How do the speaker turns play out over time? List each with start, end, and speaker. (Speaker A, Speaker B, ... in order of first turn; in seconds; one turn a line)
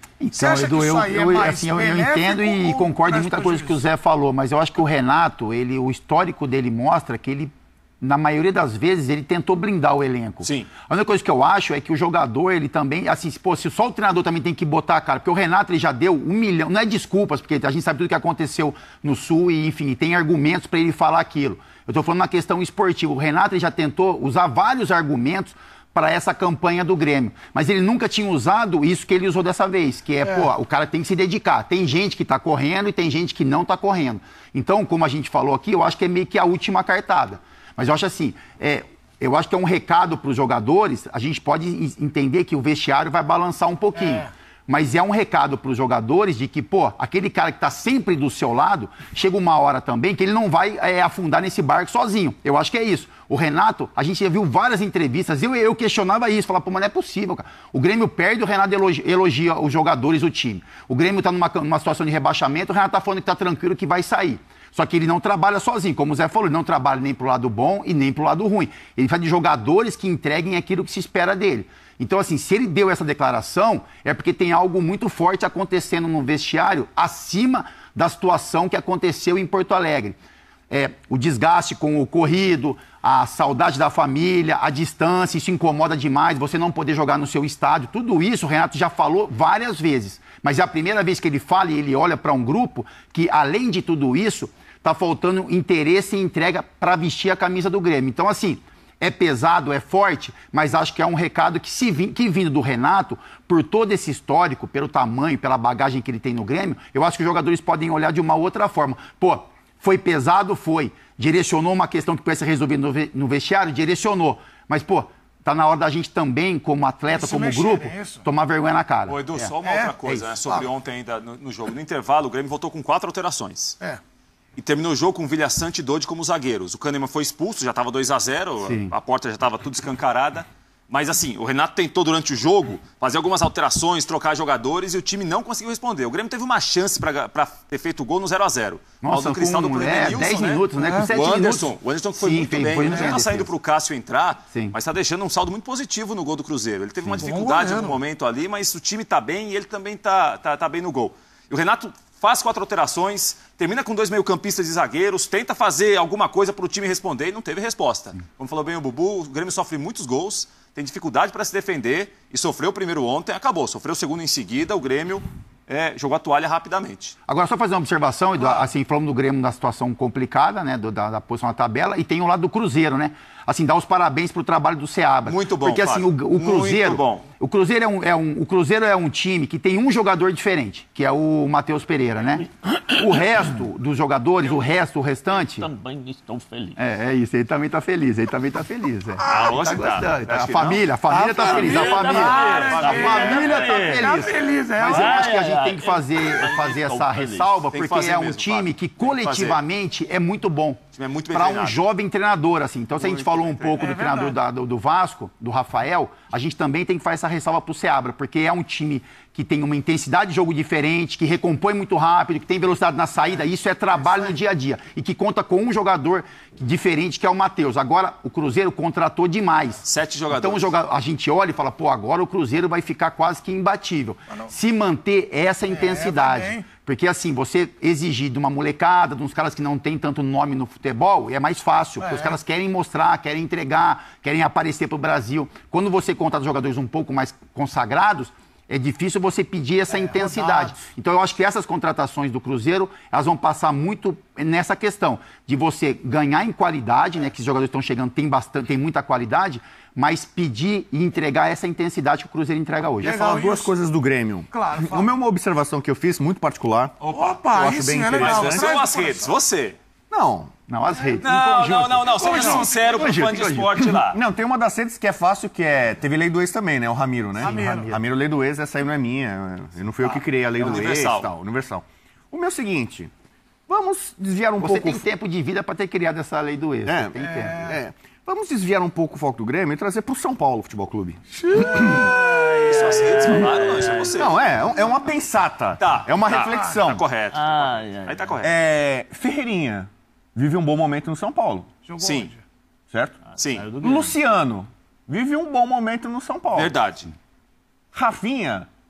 Speaker A: 0.2-80.2
Speaker B: 0.3-3.8
Speaker C: 10.4-10.7
Speaker B: 30.2-30.5
Speaker B: 43.9-44.3
Speaker A: 80.7-119.5
Speaker B: 117.1-118.3
Speaker C: 119.1-123.8
Speaker B: 119.6-119.9
Speaker A: 120.0-120.3
Speaker C: 124.6-167.2
Speaker A: 128.6-128.9
Speaker A: 139.0-143.5
Speaker B: 140.8-141.1
Speaker A: 147.0-147.3
Speaker B: 147.2-148.0
Speaker A: 167.3-185.7
Speaker C: 175.2-177.2
Speaker D: 185.3-186.8
Speaker A: 186.8-253.2
Speaker B: 189.2-189.6
Speaker C: 189.2-190.8
Speaker D: 191.1-194.3
Speaker B: 191.3-195.3
Speaker C: 191.4-193.6
Speaker D: 194.8-197.7
Speaker C: 197.7-199.6
Speaker C: 200.9-201.8
Speaker C: 202.9-204.0
Speaker B: 203.8-204.3
Speaker C: 219.8-220.7
Speaker B: 225.7-226.7
Speaker B: 232.0-232.4
Speaker B: 239.9-240.8
Speaker B: 253.0-253.7
Speaker E: 253.0-258.8
Speaker B: 254.5-255.1
Speaker C: 257.0-257.4
Speaker B: 257.1-259.3
Speaker C: 258.1-259.8
Speaker E: 260.1-260.5
Speaker A: 260.7-263.9
Speaker B: 261.0-262.7
Speaker C: 261.2-264.2
Speaker E: 264.0-273.1
Speaker A: 267.4-268.0
Speaker B: 267.4-267.9
Speaker C: 270.1-271.3
Speaker E: 273.7-275.0
Speaker A: 274.6-277.7
Speaker E: 276.9-282.0
Speaker B: 277.2-277.8
Speaker B: 281.3-283.2
Speaker C: 281.8-284.4
Speaker D: 283.8-284.1
Speaker E: 284.1-287.0
Speaker C: 285.8-288.5
Speaker D: 287.3-288.4
Speaker E: 288.4-291.7
Speaker B: 291.8-292.4
Speaker C: 292.0-292.3
Speaker E: 292.9-293.2
Speaker D: 293.3-294.2
Speaker C: 293.4-293.6
Speaker E: 293.8-296.7
Speaker C: 296.5-297.1
Speaker E: 297.9-298.7